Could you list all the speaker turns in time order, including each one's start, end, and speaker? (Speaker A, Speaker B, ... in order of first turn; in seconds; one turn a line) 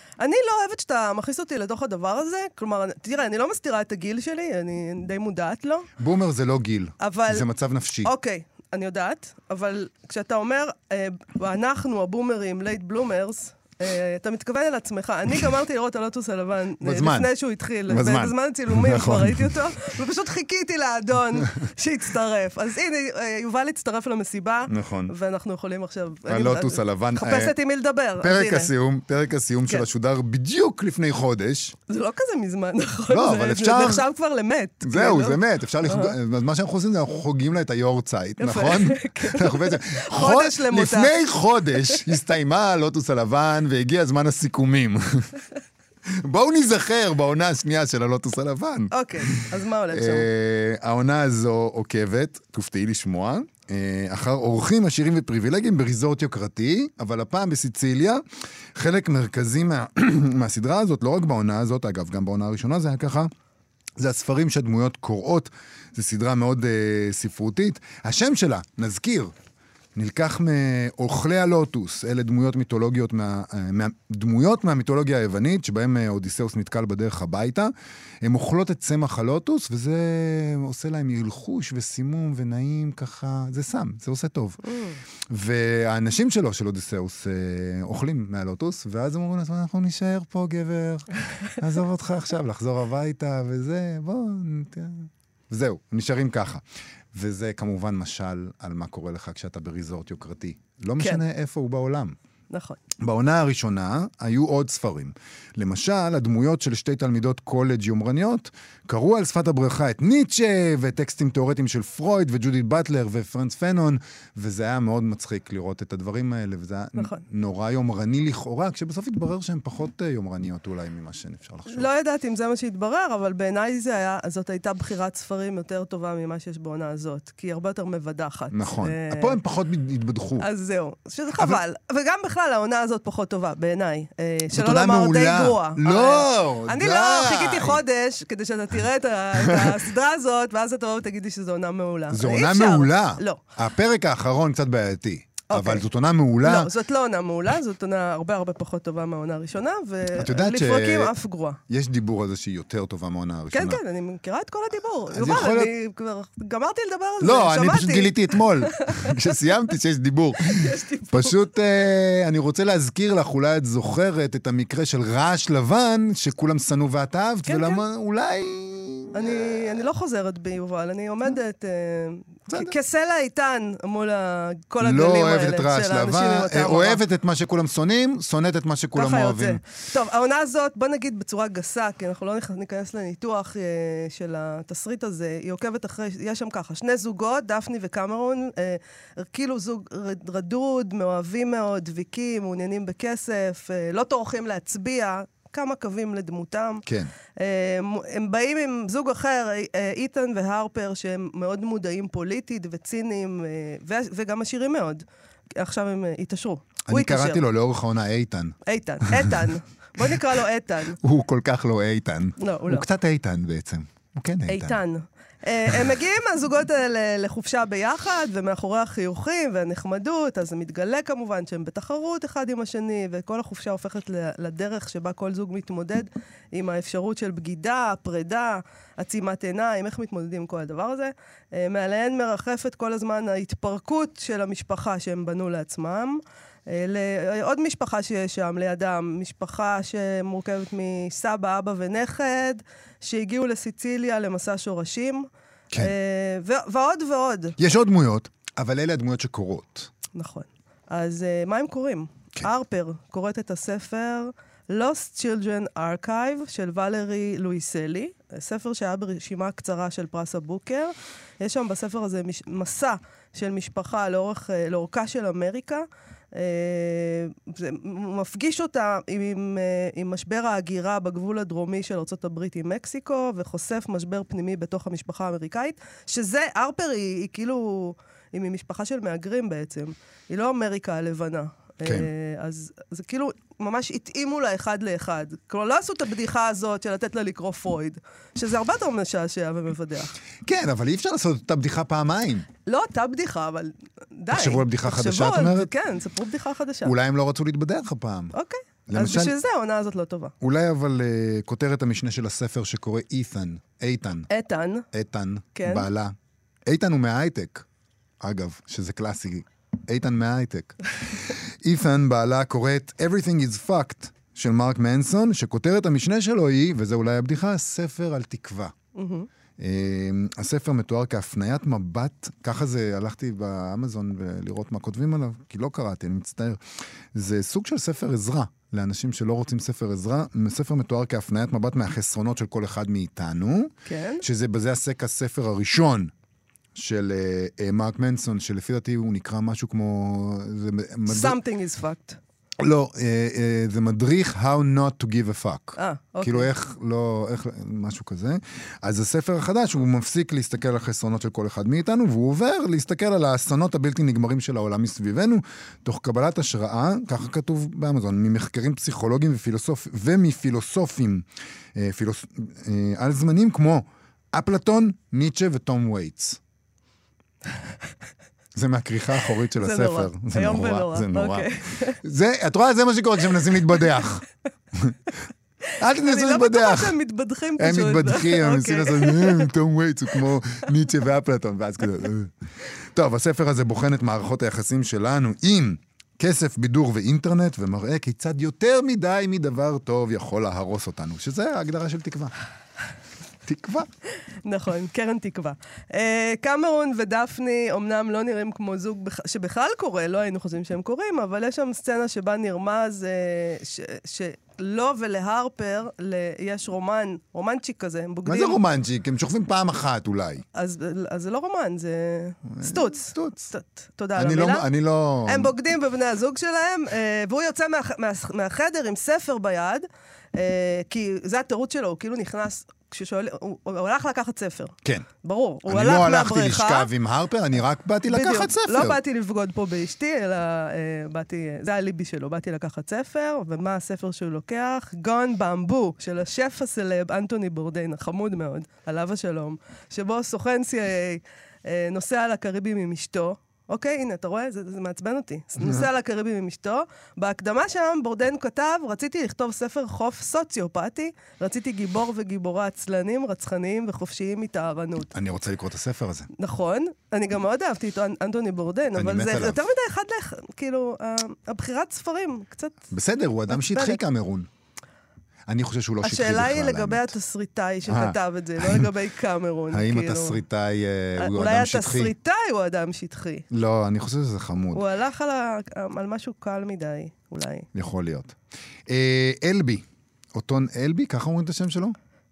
Speaker A: 0.2-5.9
Speaker B: 6.0-8.1
Speaker A: 7.0-7.4
Speaker A: 8.0-28.7
Speaker B: 16.8-17.3
Speaker B: 17.9-19.6
Speaker B: 24.7-25.1
Speaker B: 26.3-27.5
Speaker B: 28.2-31.8
Speaker A: 31.9-36.1
Speaker B: 33.1-34.0
Speaker B: 34.8-45.4
Speaker A: 38.4-41.1
Speaker B: 46.1-58.2
Speaker A: 48.9-50.3
Speaker B: 58.7-63.3
Speaker B: 64.0-69.3
Speaker B: 70.0-77.7
Speaker B: 78.2-84.6
Speaker A: 84.7-85.0
Speaker B: 85.3-102.2
Speaker A: 102.5-102.8
Speaker B: 103.0-121.9
Speaker A: 117.0-117.2
Speaker A: 121.7-129.4
Speaker B: 128.5-130.5
Speaker A: 130.4-143.4
Speaker B: 131.3-131.6
Speaker B: 134.5-137.8
Speaker B: 139.4-139.7
Speaker B: 142.1-146.7
Speaker A: 145.5-145.8
Speaker A: 146.4-151.6
Speaker B: 150.2-151.1
Speaker B: 151.7-153.8
Speaker A: 153.5-159.2
Speaker B: 155.1-155.7
Speaker B: 157.2-169.7
Speaker A: 160.5-161.3
Speaker A: 167.4-167.8
Speaker A: 169.1-177.0
Speaker B: 172.5-172.8
Speaker B: 174.8-179.6
Speaker A: 178.9-205.0
Speaker B: 196.8-197.1
Speaker A: 205.6-207.4
Speaker B: 206.9-209.4
Speaker A: 208.7-211.0
Speaker B: 211.0-214.8
Speaker A: 212.4-212.8
Speaker A: 214.5-247.6
Speaker B: 247.6-249.9
Speaker A: 250.1-290.1
Speaker B: 281.8-282.1
Speaker B: 290.4-292.5
Speaker A: 292.6-296.9
Speaker B: 294.3-295.7
Speaker B: 296.8-298.3
Speaker A: 298.3-300.3
Speaker B: 298.9-299.3
Speaker B: 300.4-304.3
Speaker A: 304.3-304.8
Speaker B: 304.9-306.1
Speaker A: 305.6-305.9
Speaker B: 306.7-307.6
Speaker B: 308.2-318.7
Speaker A: 318.9-319.3
Speaker B: 319.6-326.6
Speaker B: 327.1-336.1
Speaker A: 333.9-334.2
Speaker B: 336.7-341.3
Speaker A: 341.1-342.2
Speaker B: 342.6-366.4
Speaker A: 345.8-346.5
Speaker B: 368.5-375.1
Speaker A: 369.6-372.0
Speaker B: 375.8-376.9
Speaker A: 376.0-379.5
Speaker B: 377.6-392.3
Speaker B: 393.4-393.9
Speaker A: 394.4-408.6
Speaker B: 408.2-410.4
Speaker A: 410.5-414.6
Speaker B: 412.6-413.5
Speaker B: 414.1-415.5
Speaker A: 415.3-426.9
Speaker B: 425.6-429.0
Speaker A: 428.1-455.1
Speaker B: 445.6-445.9
Speaker B: 455.1-456.3
Speaker A: 456.4-462.9
Speaker B: 458.9-459.6
Speaker B: 462.9-464.5
Speaker A: 463.5-464.0
Speaker B: 465.5-467.1
Speaker A: 466.0-470.4
Speaker B: 467.9-468.9
Speaker B: 469.7-472.1
Speaker A: 471.2-473.4
Speaker B: 473.5-474.8
Speaker A: 474.7-477.7
Speaker B: 477.7-478.4
Speaker B: 478.9-481.9